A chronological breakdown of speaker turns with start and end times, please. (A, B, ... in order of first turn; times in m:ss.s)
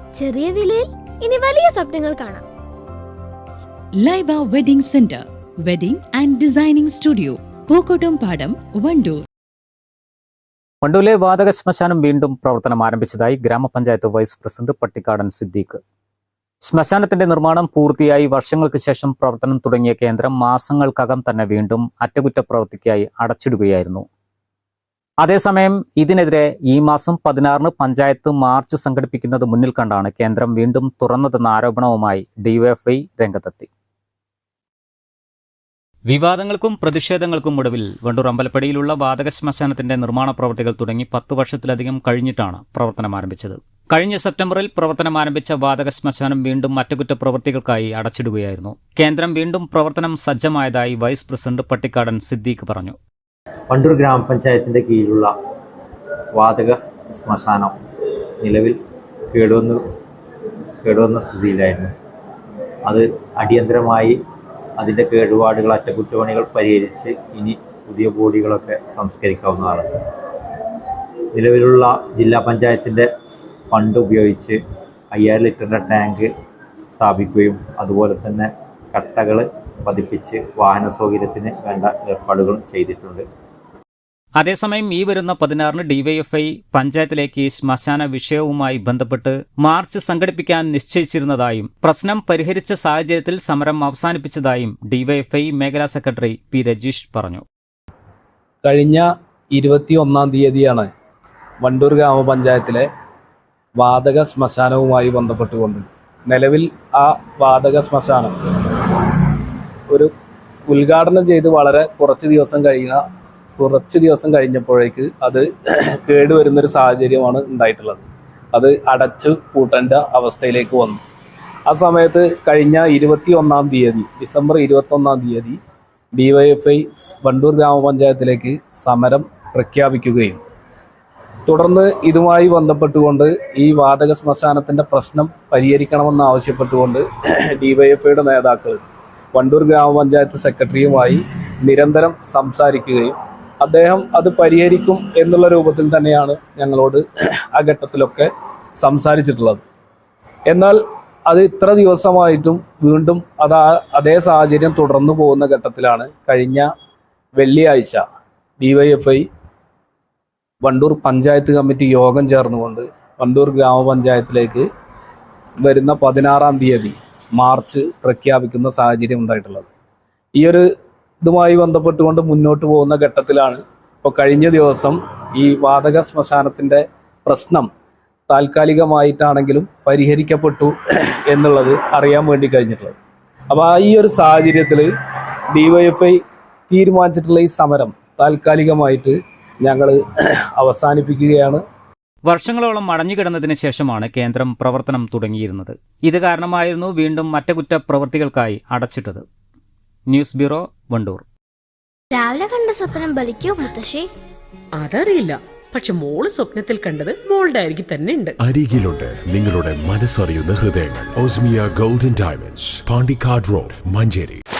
0:00.2-0:02.4 A
0:04.0-0:09.2 B
0:10.8-0:15.8 C
0:16.6-0:24.0 C
0:25.2-0:33.7 C
0:36.1-0:53.0 C
0:53.7-0:55.3 D
0:56.4-0:57.7 D
0:58.4-0:58.8 D
0:59.3-0:59.8 D
1:00.8-1:01.9 D
1:02.8-1:04.2 D
1:04.8-1:09.9 D
1:11.3-1:13.1 D
1:13.7-1:14.6 D
1:15.1-1:16.3 D
1:16.9-1:23.2 D
1:24.4-1:37.4 C
1:38.6-1:40.9 E
1:41.6-1:42.9 E
1:43.8-1:48.3 E
1:50.7-1:53.0 E
1:53.6-2:01.0 E
2:01.7-2:05.6 E
2:06.1-2:10.4 E
2:11.4-2:29.6 E
2:30.5-2:36.7 E
2:37.4-2:38.0 E
2:38.6-2:39.3 E
2:40.6-2:44.7 E
2:45.6-2:49.7 E
2:50.3-2:50.7 E
2:51.2-2:57.7 E
2:58.3-3:02.9 E
3:03.5-3:04.9 E
3:05.5-3:10.0 E
3:10.5-3:11.6 E
3:12.2-3:19.2 C
3:20.1-3:21.2 C
3:22.1-3:24.1 A
3:24.8-3:28.3 F
3:28.4-3:34.4 G